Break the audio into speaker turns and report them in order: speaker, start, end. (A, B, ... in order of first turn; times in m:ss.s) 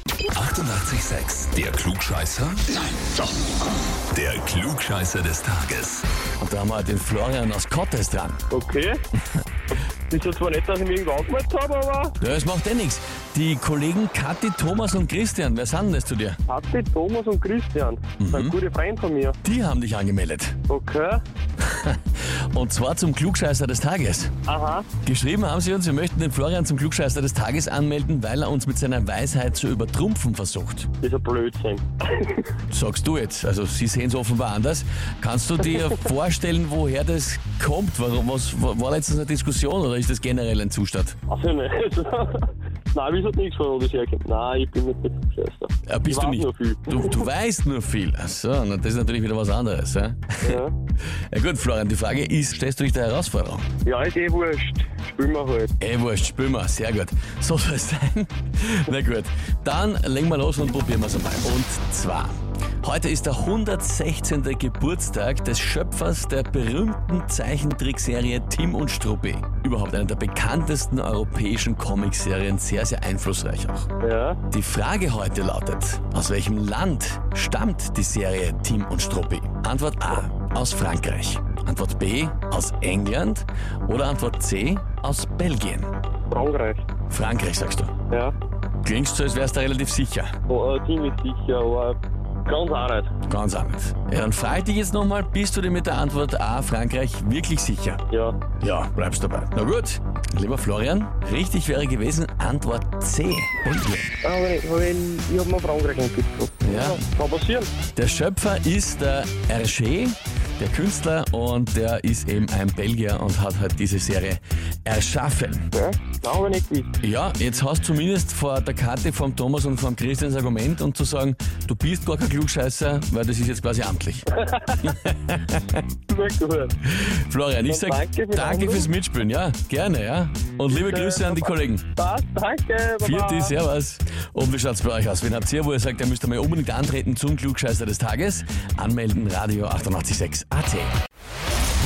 0:00.3-0:02.8 A
0:04.1-0:06.0 A
0:06.4-0:08.4 B
0:08.5-0:09.0 C
0:10.1-0:12.2 C
0:12.2-0:16.4 B
0:16.5-0:19.4 C
0:18.2-0:18.6 B
0:19.4-0:20.6 B
0:20.7-0:21.2 C
0:21.6-0:24.3 B
0:24.4-0:24.9 C
0:25.0-0:30.9 B
0:31.0-0:32.5 C
0:32.7-0:41.2 B
0:41.3-0:47.2 C
0:45.8-0:50.6 B
0:50.4-0:50.7 C
0:51.3-0:53.6 B
0:53.8-0:55.7 C
0:55.8-1:13.9 B
1:14.0-1:14.4 C
1:14.5-1:25.9 B
1:26.3-1:26.8 C
1:27.1-1:27.9 B
1:28.8-1:30.3 B
1:30.5-1:33.1 C
1:33.3-1:38.0 B
1:38.1-1:38.4 C
1:38.6-1:44.1 B
1:44.2-1:47.7 C
1:46.6-1:47.0 B
1:47.9-1:55.7 B
1:55.7-1:56.9 C
1:57.0-2:05.8 B
2:04.4-2:04.9 C
2:06.1-2:06.7 C
2:06.8-2:11.8 B
2:07.6-2:08.9 C
2:10.7-2:13.6 C
2:13.0-2:20.9 B